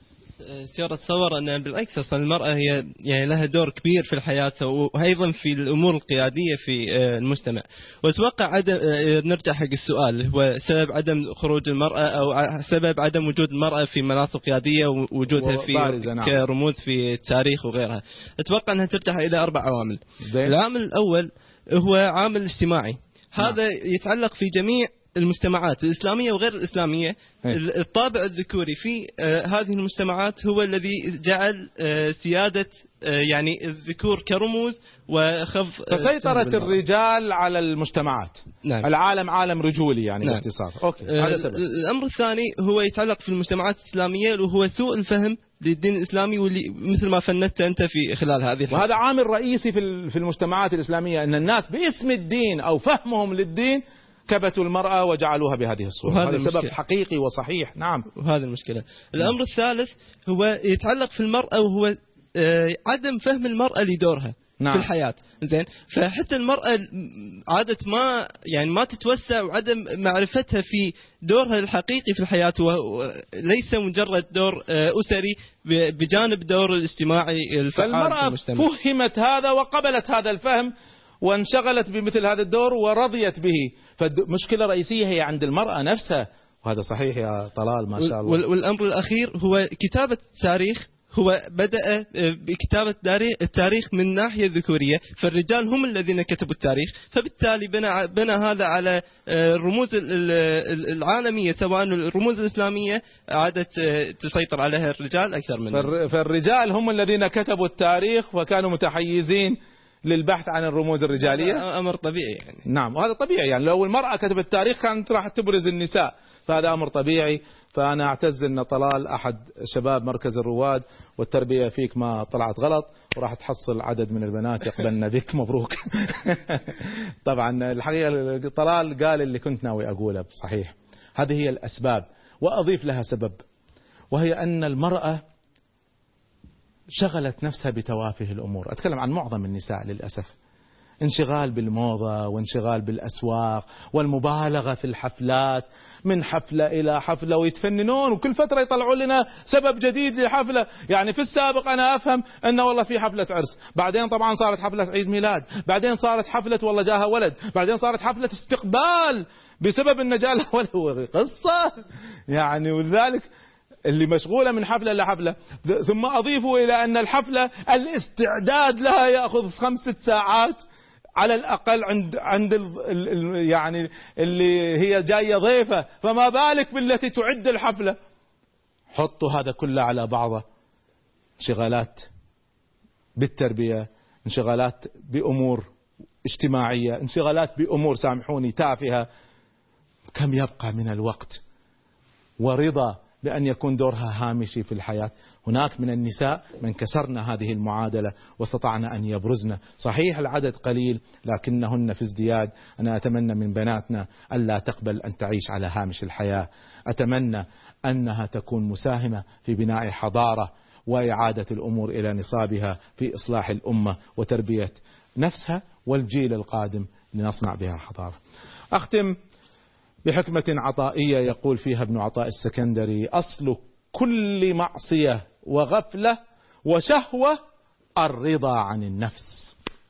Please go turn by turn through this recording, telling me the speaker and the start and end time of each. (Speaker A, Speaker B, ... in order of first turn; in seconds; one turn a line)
Speaker A: 0.5-36.7
Speaker B: 15.3-16.4
Speaker B: 20.2-20.6
Speaker B: 35.9-41.6
Speaker A: 41.0-48.9
Speaker B: 48.7-58.1
Speaker A: 56.1-56.7
Speaker A: 58.1-78.7
Speaker B: 64.6-64.9
Speaker B: 77.8-88.4
Speaker A: 88.0-105.9
Speaker B: 105.7-111.7
Speaker A: 111.2-112.6
Speaker B: 112.7-133.4
Speaker B: 134.1-135.2
Speaker B: 137.0-140.3
Speaker B: 141.0-161.8
Speaker B: 162.3-163.3
Speaker B: 163.9-170.6
Speaker B: 171.2-178.0
Speaker B: 178.9-180.4
Speaker B: 181.4-182.1
Speaker B: 183.2-185.7
Speaker B: 186.2-189.1
Speaker B: 190.1-191.4
Speaker B: 192.4-218.2
Speaker B: 218.7-219.2
Speaker B: 220.1-227.4
Speaker B: 228.0-229.6